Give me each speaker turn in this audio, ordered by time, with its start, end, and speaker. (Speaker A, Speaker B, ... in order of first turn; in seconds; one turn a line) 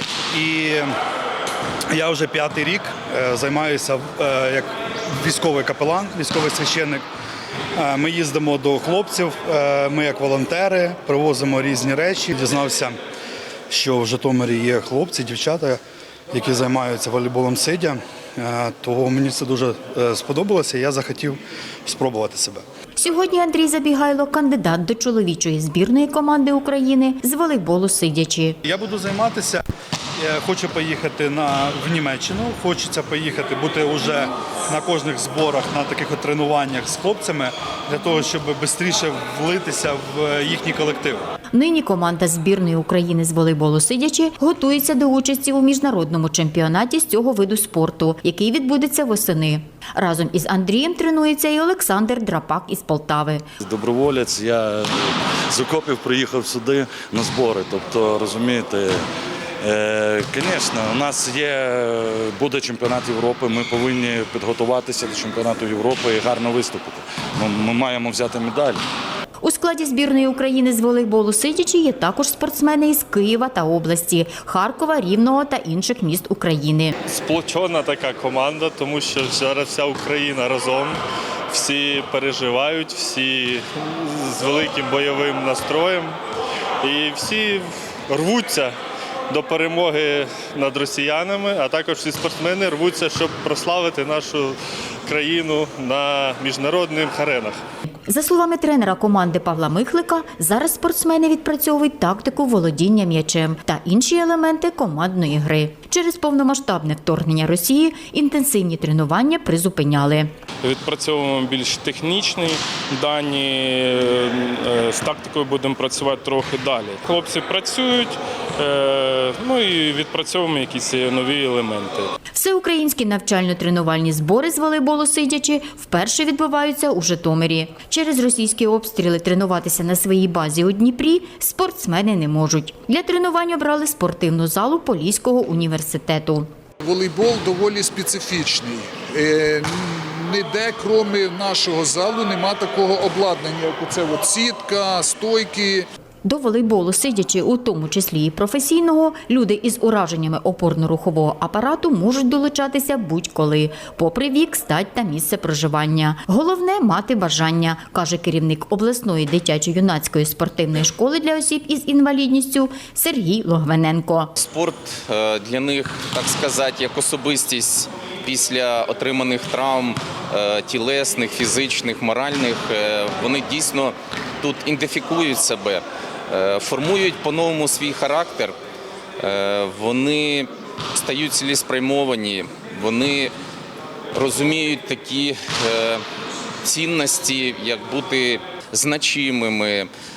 Speaker A: 0.3-0.9
Speaker A: 1.9-7.0
Speaker A: 7.8-12.9
Speaker A: 13.7-15.8
Speaker A: 16.3-22.6
Speaker B: 23.0-28.6
Speaker A: 28.6-29.6
Speaker A: 30.2-41.2
Speaker B: 41.5-53.4
Speaker C: 53.6-59.1
Speaker C: 59.6-68.8
Speaker B: 69.4-76.9
Speaker D: 77.1-81.0
Speaker D: 81.5-86.2
Speaker D: 86.8-88.7
Speaker D: 89.3-97.6
Speaker B: 98.1-110.3
Speaker E: 110.6-122.1
Speaker B: 122.3-136.5
Speaker F: 136.8-145.9
Speaker B: 146.2-164.3
Speaker G: 164.4-178.6
Speaker G: 179.2-183.3
Speaker G: 184.1-186.0
Speaker G: 186.6-189.9